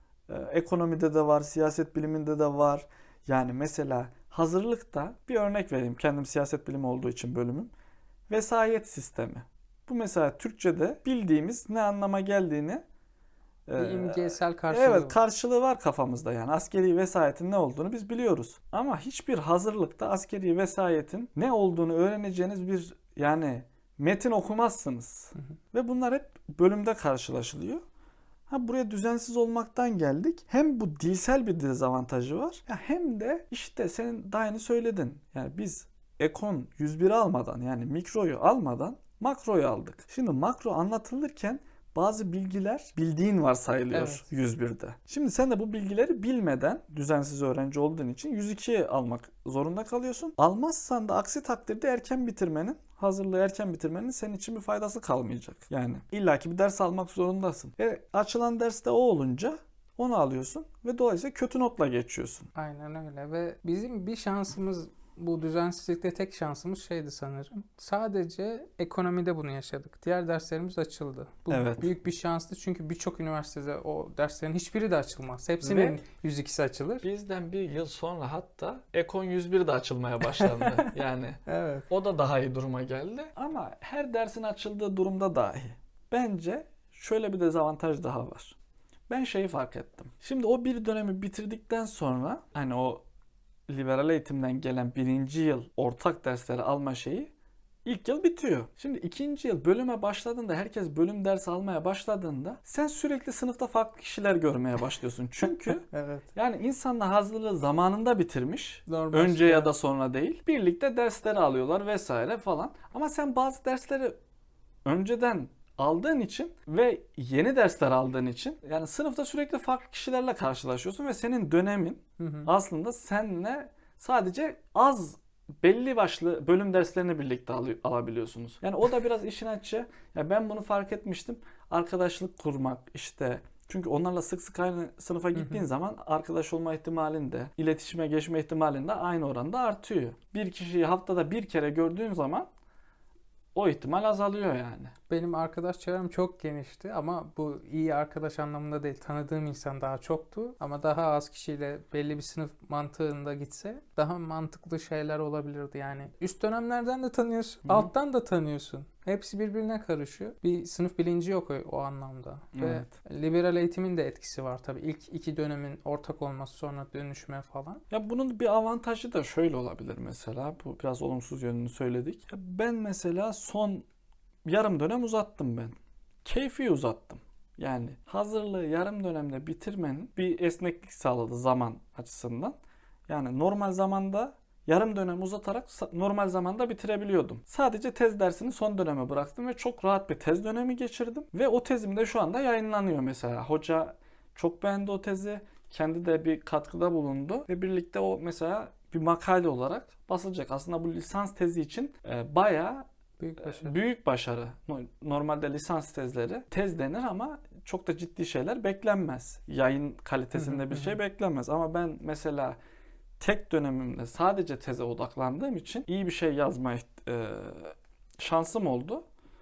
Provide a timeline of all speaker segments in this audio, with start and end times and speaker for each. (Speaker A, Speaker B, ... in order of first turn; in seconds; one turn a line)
Speaker A: 0.3-7.7
Speaker A: 8.3-12.8
Speaker A: 13.7-27.8
Speaker B: 13.8-15.2
Speaker A: 28.5-62.5
Speaker B: 43.9-44.3
Speaker B: 62.5-77.0
Speaker A: 71.5-71.9
Speaker A: 75.6-76.0
Speaker A: 77.0-88.6
Speaker B: 80.4-80.9
Speaker B: 81.5-81.9
Speaker A: 89.1-93.0
Speaker A: 93.7-97.3
Speaker A: 97.8-114.2
Speaker B: 105.5-106.3
Speaker B: 108.9-109.8
Speaker A: 114.8-142.5
Speaker B: 122.2-122.5
Speaker B: 135.3-135.7
Speaker A: 143.6-144.9
Speaker B: 145.1-167.8
Speaker A: 157.7-157.9
Speaker A: 162.5-162.9
Speaker A: 167.9-173.8
Speaker A: 174.4-182.6
Speaker A: 183.1-202.8
Speaker B: 203.2-203.8
Speaker A: 203.4-212.6
Speaker B: 210.3-211.0
Speaker A: 213.2-219.0